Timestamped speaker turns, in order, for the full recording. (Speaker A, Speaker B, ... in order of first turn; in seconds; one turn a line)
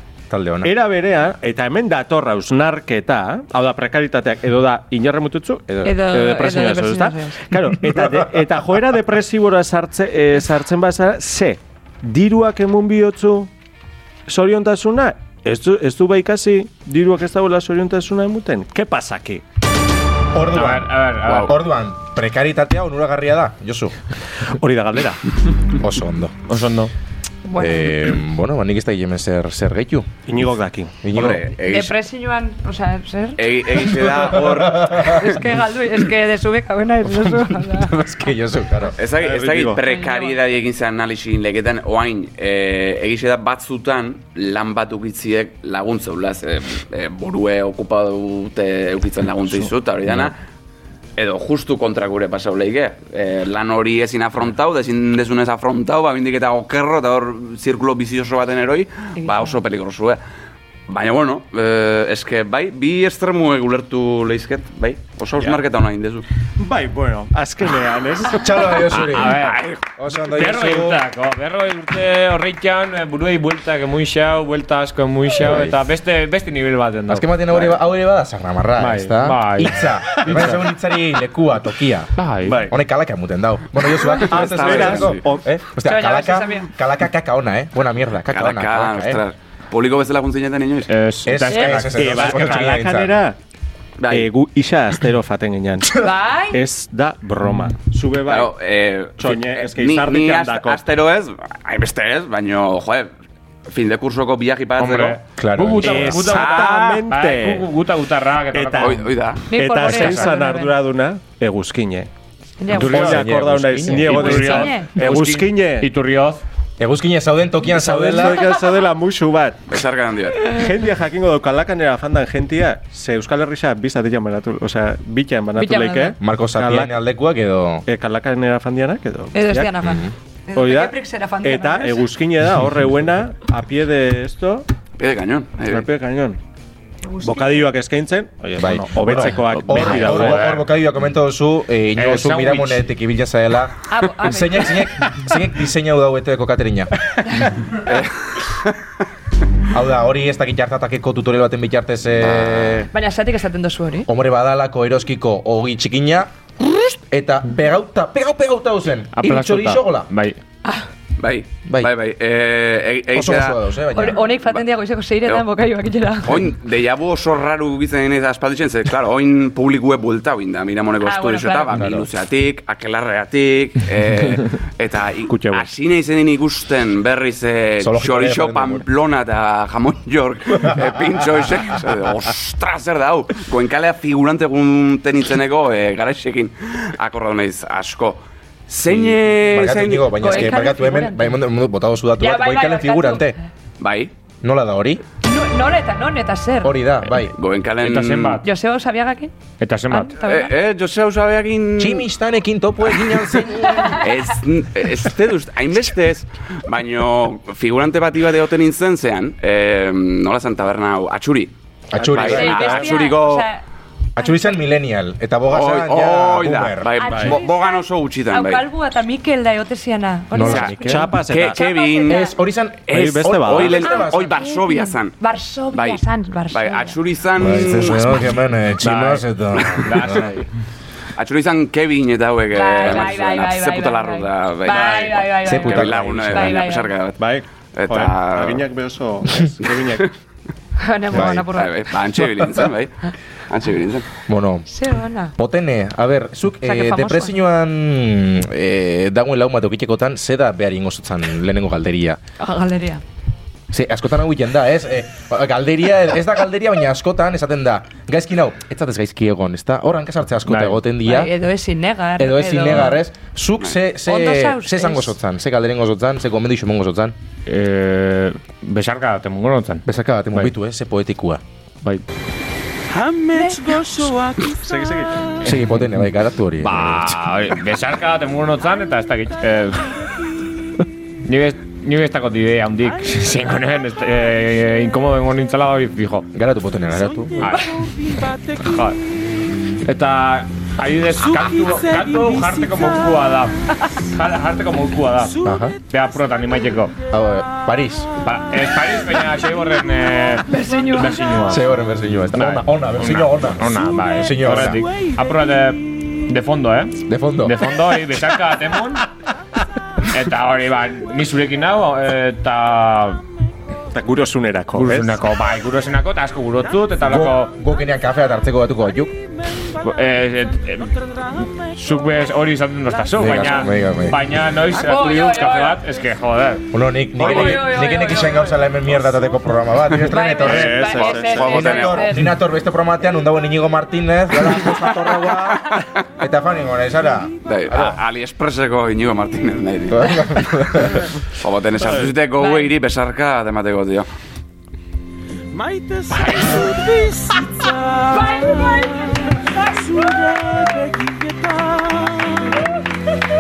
Speaker A: 0.3-0.7
Speaker B: 0.6-13.5
Speaker A: 5.7-5.9
Speaker C: 5.8-7.4
Speaker A: 7.8-8.4
Speaker B: 14.3-19.4
Speaker A: 20.3-23.9
Speaker D: 20.5-21.6
Speaker E: 21.3-21.5
Speaker B: 24.4-25.2
Speaker A: 25.8-26.4
Speaker D: 26.5-26.9
Speaker C: 27.4-28.0
Speaker A: 27.6-30.1
Speaker B: 30.3-30.9
Speaker A: 31.0-31.5
Speaker E: 31.1-32.0
Speaker C: 31.6-33.4
Speaker E: 33.4-35.4
Speaker A: 34.1-35.2
Speaker C: 35.1-38.0
Speaker A: 37.0-39.0
Speaker E: 39.0-50.4
Speaker B: 39.1-39.8
Speaker C: 39.8-40.4
Speaker E: 51.2-60.2
Speaker C: 59.2-59.5
Speaker E: 60.9-66.3
Speaker B: 66.6-68.5
Speaker A: 68.3-71.0
Speaker D: 68.9-77.5
Speaker E: 69.4-69.7
Speaker A: 75.4-75.8
Speaker A: 77.1-82.1
Speaker D: 78.8-80.6
Speaker B: 80.1-80.6
Speaker D: 82.2-82.6
Speaker B: 82.5-82.8
Speaker A: 82.7-89.2
Speaker B: 84.2-85.5
Speaker E: 84.2-85.2
Speaker C: 85.8-86.7
Speaker E: 88.3-90.9
Speaker D: 90.9-92.5
Speaker A: 91.2-93.2
Speaker C: 91.5-91.8
Speaker B: 91.9-93.4
Speaker E: 94.0-94.3
Speaker B: 94.1-98.5
Speaker C: 96.0-96.6
Speaker E: 98.3-103.1
Speaker B: 99.2-100.8
Speaker E: 103.7-105.2
Speaker D: 104.8-109.0
Speaker A: 105.4-106.4
Speaker B: 105.8-107.7
Speaker E: 106.2-107.0
Speaker B: 108.5-112.1
Speaker E: 108.8-109.4
Speaker C: 109.5-110.8
Speaker D: 109.8-110.3
Speaker C: 112.6-113.1
Speaker A: 112.7-114.5
Speaker B: 112.7-115.9
Speaker D: 112.8-113.3
Speaker D: 113.8-116.4
Speaker C: 114.3-114.9
Speaker A: 116.8-118.5
Speaker B: 117.7-119.8
Speaker E: 119.7-120.6
Speaker B: 120.4-127.0
Speaker C: 125.6-126.2
Speaker A: 126.2-127.9
Speaker B: 127.9-129.7
Speaker C: 129.3-132.1
Speaker A: 129.8-130.1
Speaker B: 130.6-134.7
Speaker E: 135.0-135.9
Speaker B: 135.7-136.4
Speaker C: 137.1-137.7
Speaker B: 137.2-140.6
Speaker A: 138.6-146.9
Speaker D: 139.5-140.7
Speaker D: 142.0-142.9
Speaker C: 143.9-144.9
Speaker A: 149.7-152.9
Speaker E: 152.2-152.9
Speaker C: 152.9-154.1
Speaker A: 154.1-160.1
Speaker D: 159.2-160.4
Speaker E: 161.2-163.6
Speaker A: 163.1-164.2
Speaker C: 163.9-166.5
Speaker E: 166.2-190.4
Speaker C: 171.0-171.8
Speaker B: 175.3-175.7
Speaker A: 177.8-178.8
Speaker A: 188.9-193.4
Speaker C: 190.2-191.3
Speaker C: 192.2-193.4
Speaker E: 193.8-194.1
Speaker A: 194.4-195.0
Speaker C: 195.2-196.8
Speaker A: 196.6-197.3
Speaker E: 197.3-198.4
Speaker D: 197.8-198.4
Speaker C: 198.4-199.3
Speaker D: 199.6-200.2
Speaker C: 199.9-200.5
Speaker E: 200.2-202.1
Speaker A: 201.8-204.0
Speaker C: 203.7-204.0
Speaker E: 203.9-213.5
Speaker A: 211.9-212.9
Speaker B: 212.0-212.9
Speaker C: 212.2-213.6
Speaker A: 214.2-216.9
Speaker C: 214.2-214.6
Speaker E: 215.5-218.6
Speaker C: 217.0-222.4
Speaker B: 217.1-217.4
Speaker A: 220.3-221.1
Speaker B: 220.8-221.6
Speaker E: 221.3-222.3
Speaker A: 222.0-224.4
Speaker E: 222.9-225.2
Speaker B: 222.9-223.8
Speaker C: 223.9-227.0
Speaker E: 225.7-228.4
Speaker A: 227.4-230.4
Speaker D: 228.8-230.5
Speaker E: 231.2-237.2
Speaker C: 232.5-236.9
Speaker B: 234.7-235.0
Speaker A: 235.4-236.6
Speaker B: 237.2-240.1
Speaker E: 237.7-238.7
Speaker C: 240.8-241.8
Speaker A: 241.1-241.5
Speaker E: 241.5-244.1
Speaker A: 244.3-244.7
Speaker C: 244.7-245.3
Speaker A: 245.4-252.2
Speaker C: 246.6-247.4
Speaker C: 252.4-253.0
Speaker A: 253.7-261.3
Speaker D: 260.5-260.8
Speaker C: 261.0-263.0
Speaker A: 262.2-267.1
Speaker C: 264.1-265.1
Speaker D: 267.5-270.5
Speaker A: 269.9-271.4
Speaker F: 272.9-275.4
Speaker C: 273.3-273.7
Speaker B: 274.6-275.2
Speaker A: 275.4-277.2
Speaker D: 276.6-280.0
Speaker D: 281.2-286.3
Speaker F: 283.1-283.8
Speaker A: 286.3-287.5
Speaker F: 286.9-288.9
Speaker D: 287.4-287.8
Speaker D: 288.6-289.0
Speaker D: 289.9-293.6
Speaker F: 291.2-293.4
Speaker D: 294.1-296.9
Speaker F: 295.2-296.6
Speaker A: 295.4-295.8
Speaker A: 297.1-298.1
Speaker D: 298.2-301.7
Speaker C: 300.5-301.3
Speaker A: 301.4-304.9
Speaker D: 302.3-309.1
Speaker F: 304.8-305.6
Speaker A: 307.1-307.8
Speaker D: 310.1-313.2
Speaker B: 313.9-315.2
Speaker D: 314.7-317.6
Speaker A: 317.0-319.1
Speaker D: 319.8-326.7
Speaker F: 321.1-322.2
Speaker F: 323.0-323.2
Speaker A: 323.1-324.3
Speaker C: 324.7-325.8
Speaker A: 326.7-338.0
Speaker C: 327.2-328.6
Speaker D: 327.2-327.7
Speaker C: 330.1-332.3
Speaker B: 330.4-331.9
Speaker E: 331.1-332.0
Speaker E: 337.4-340.8
Speaker A: 339.9-341.1
Speaker E: 341.4-344.1
Speaker C: 342.4-342.7
Speaker F: 345.5-352.7
Speaker C: 348.1-349.0